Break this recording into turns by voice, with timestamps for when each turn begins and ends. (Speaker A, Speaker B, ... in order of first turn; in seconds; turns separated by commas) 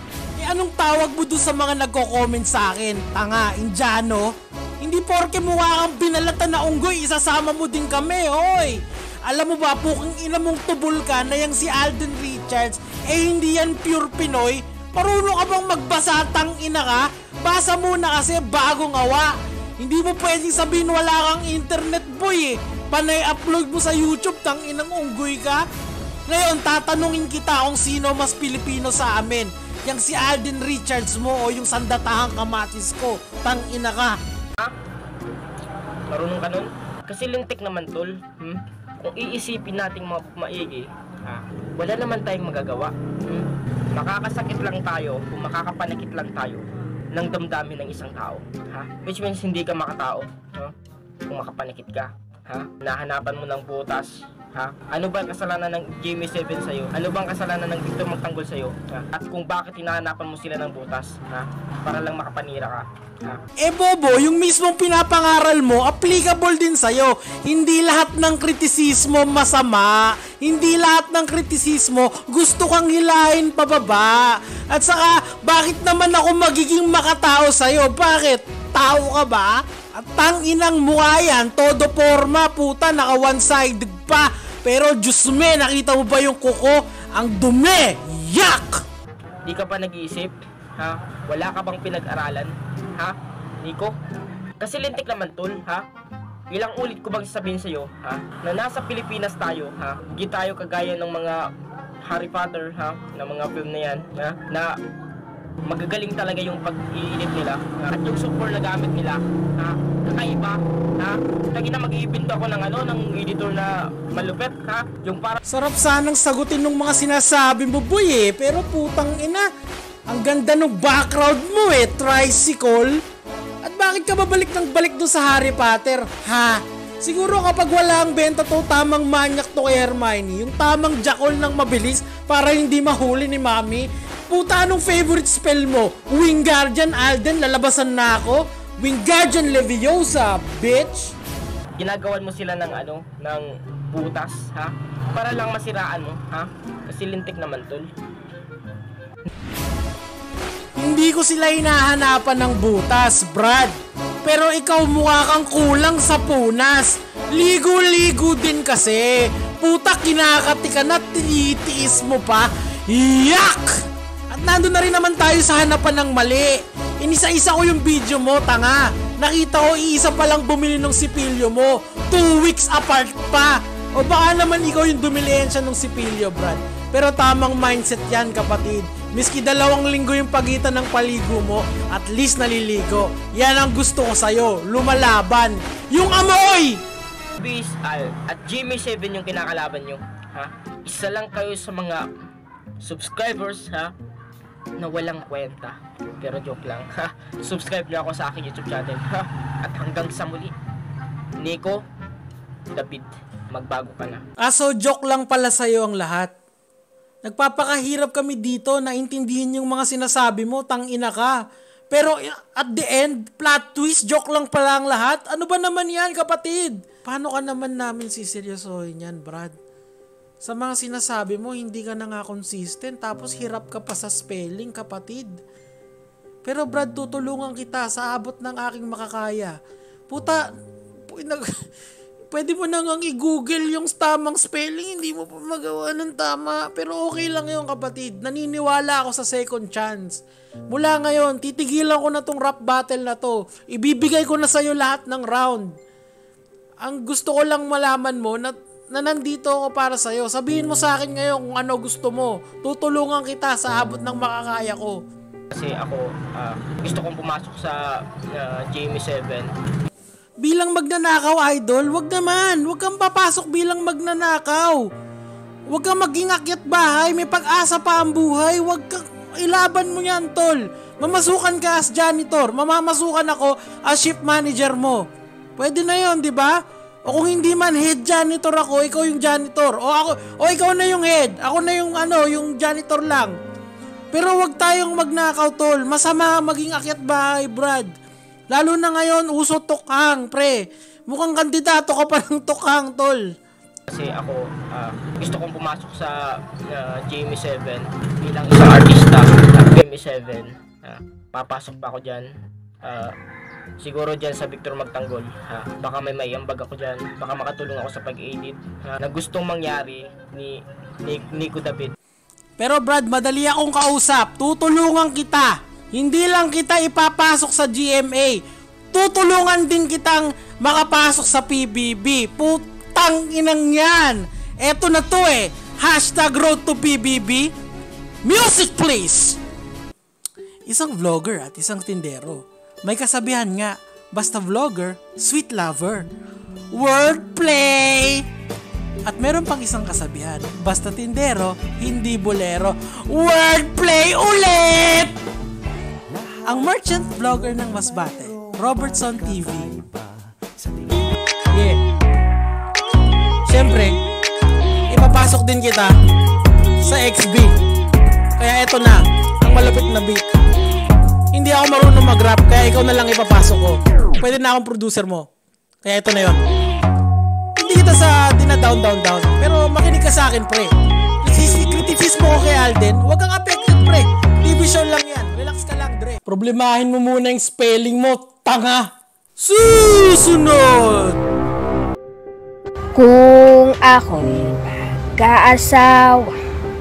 Speaker A: 0.4-25.6, Speaker A: 26.3-34.1, Speaker B: 36.1-50.7, Speaker B: 51.3-63.4, Speaker A: 63.6-88.8, Speaker B: 89.4-94.0, Speaker B: 94.6-95.8, Speaker B: 96.5-101.5, Speaker B: 102.0-104.7, Speaker B: 105.6-115.4, Speaker A: 115.5-119.4, Speaker A: 120.1-123.0, Speaker A: 123.6-141.1, Speaker B: 141.7-147.9, Speaker A: 150.8-163.7, Speaker A: 164.3-186.8, Speaker B: 187.4-192.1, Speaker B: 192.8-193.9, Speaker B: 194.8-200.5, Speaker B: 201.4-201.8, Speaker B: 202.7-204.2, Speaker A: 204.4-206.3, Speaker A: 207.2-211.3, Speaker A: 211.9-219.5, Speaker A: 220.4-225.3, Speaker A: 226.4-229.6, Speaker A: 230.1-230.4, Speaker A: 231.1-231.5, Speaker A: 232.3-245.7, Speaker A: 246.8-255.0, Speaker B: 255.5-259.5, Speaker A: 260.4-264.8, Speaker A: 265.7-275.0, Speaker A: 275.6-276.5, Speaker A: 277.1-283.3, Speaker A: 284.1-287.9, Speaker A: 288.5-293.2, Speaker B: 293.9-302.3, Speaker B: 302.8-303.1, Speaker B: 303.8-311.9, Speaker A: 312.6-318.4, Speaker A: 318.9-327.5, Speaker A: 328.2-329.4, Speaker A: 330.7-336.1, Speaker A: 336.7-338.2, Speaker A: 339.1-345.1, Speaker A: 346.4-349.8, Speaker A: 351.5-351.8, Speaker A: 353.4-354.0, Speaker A: 354.9-355.9, Speaker A: 356.8-357.5, Speaker A: 358.4-360.2, Speaker A: 361.3-365.3, Speaker A: 365.8-366.4, Speaker A: 367.6-370.7, Speaker A: 371.2-381.2, Speaker C: 382.9-386.3